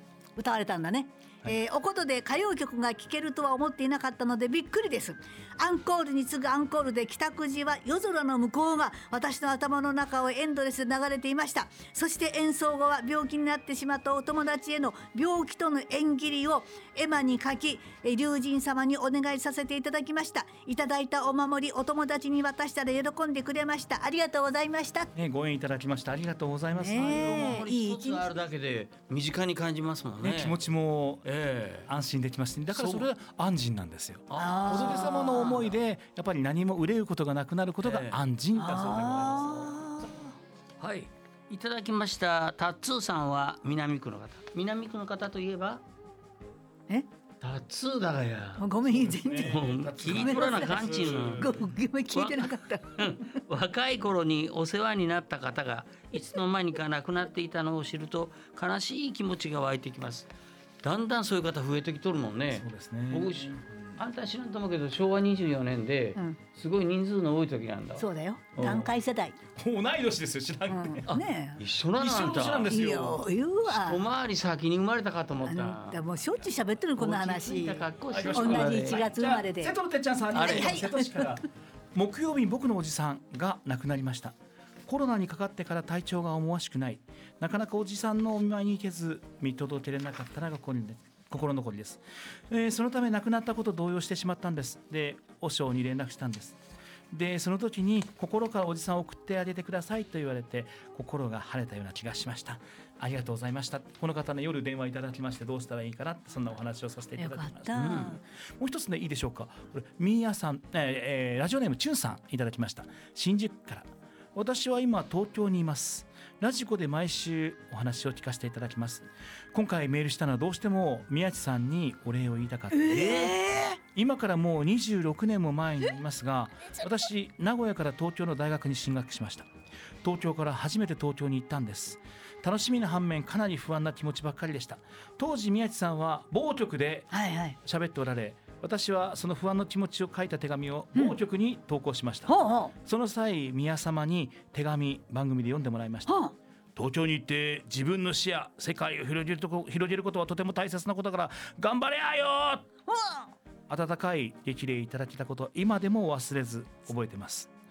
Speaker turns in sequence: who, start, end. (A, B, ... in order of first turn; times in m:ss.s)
0:00.4-0:25.1 A
0:25.2-0:27.6 B
0:26.8-0:28.3 A
0:26.9-0:30.6 C
0:30.2-0:31.3 B
0:31.2-0:31.9 C
0:31.9-0:39.8 B
0:32.7-0:33.1 C
0:34.3-0:35.7 C
0:34.4-0:35.6 A
0:37.8-0:38.2 C
0:38.6-0:40.3 A
0:40.8-0:45.8 C
0:47.4-0:48.7 C
0:48.6-0:53.4 A
0:48.8-0:51.7 B
0:49.4-0:51.5 C
0:52.1-1:00.3 C
1:00.8-1:08.9 C
1:02.5-1:03.6 B
1:06.2-1:06.4 A
1:08.0-1:09.4 A
1:09.6-1:11.1 B
1:10.7-1:11.6 A
1:11.1-1:12.9 C
1:12.0-1:13.2 B
1:12.7-1:14.0 A
1:13.7-1:16.0 C
1:15.5-1:19.8 A
1:17.0-1:19.1 C
1:18.1-1:24.4 B
1:20.3-1:20.8 C
1:20.4-1:21.4 A
1:24.9-1:36.6 B
1:37.1-2:09.5 B
1:47.2-1:48.2 A
1:47.8-1:48.2 C
2:02.7-2:03.8 A
2:10.0-2:17.1 B
2:17.1-2:17.6 A
2:17.6-2:26.2 B
2:22.3-2:22.7 A
2:26.1-2:26.3 A
2:26.8-2:32.7 B
2:32.9-2:33.3 A
2:33.7-2:37.5 B